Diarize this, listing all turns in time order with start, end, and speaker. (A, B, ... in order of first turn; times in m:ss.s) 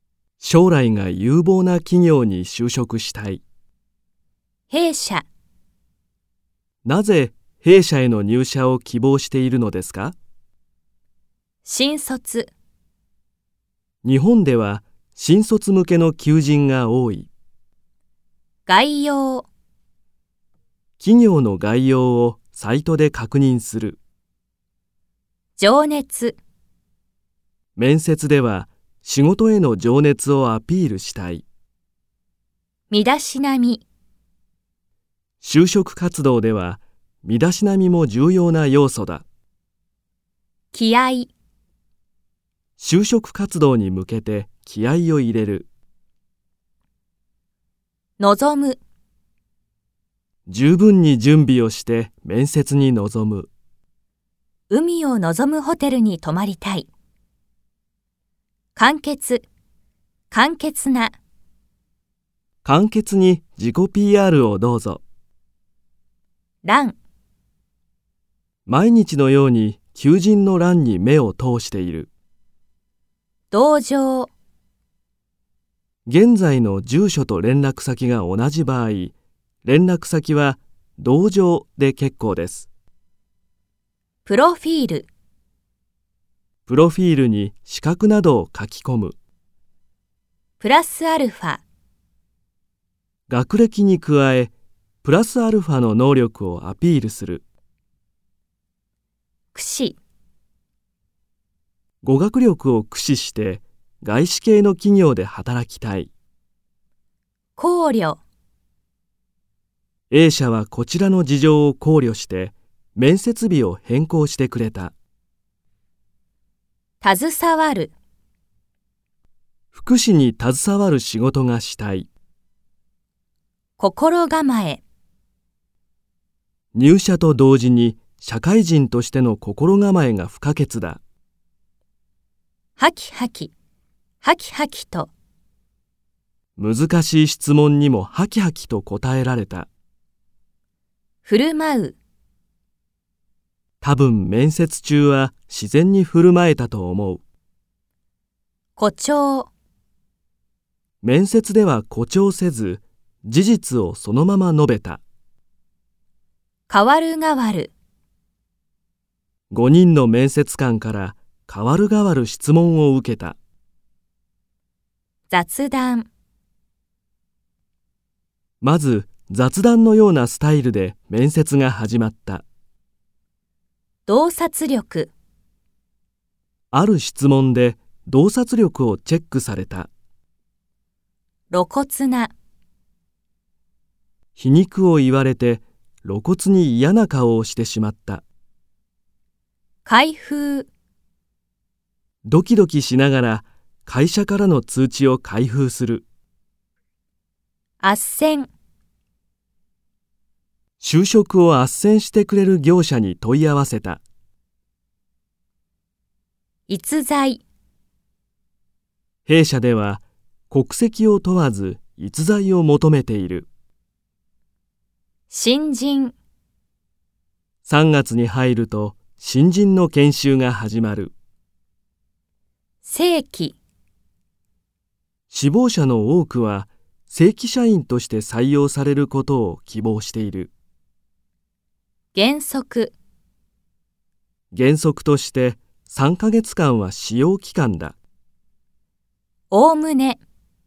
0:00.4-0:03.4 A
0:04.7-0:05.2 B
0:06.8-0:10.2 A
0:11.6-0:12.5 B
0:14.0-0:17.3 A
0:18.7-0:19.5 B
0:21.0-0:24.0 A
0:25.6-0:26.4 B
0:27.8-0:31.4 A
0:32.9-0:33.8 B
0:35.4-0:39.2 A
0:40.7-0:41.3 B
0:42.8-0:45.7 A
0:48.2-0:48.8 B
0:50.5-0:53.5 A
0:54.7-0:56.9 B
0:58.7-0:59.4 B
1:00.3-1:01.1 B
1:02.6-1:05.0 A
1:06.6-1:07.0 B
1:08.7-1:12.1 A
1:13.5-1:14.3 B
1:16.0-1:22.7 A
1:24.2-1:25.1 B
1:26.7-1:29.2 A
1:30.6-1:31.6 B
1:33.3-1:34.5 A
1:35.0-1:37.4 A
1:39.5-1:40.0 B
1:42.0-1:46.1 A
1:47.6-1:48.2 B
1:50.1-1:54.9 A
1:57.0-1:57.9 B
1:59.7-2:02.1 A
2:03.8-2:04.8 B
2:06.7-2:11.0 A
2:12.8-2:13.5 B
2:14.2-2:15.1 B
2:16.6-2:19.7 A
2:21.2-2:22.0 B
2:23.8-2:27.2 A
2:28.8-2:29.5 B
2:31.0-2:35.0 A
2:36.7-2:37.7 B
2:39.5-2:43.4 A
2:45.3-2:46.1 B
2:48.6-2:52.4 A
2:54.0-2:55.1 B
2:56.7-2:59.9 A
3:01.5-3:02.3 B
3:04.4-3:08.2 A
3:09.8-3:10.7 B
3:12.2-3:16.0 A
3:17.8-3:18.5 B
3:20.8-3:24.0 A
3:26.7-3:27.4 B
3:29.2-3:33.5 A
3:35.3-3:36.1 B
3:37.6-3:41.1 A
3:42.8-3:43.6 B
3:45.3-3:50.5 A
3:52.1-3:52.9 B
3:54.5-3:58.0 A
3:59.5-4:00.2 B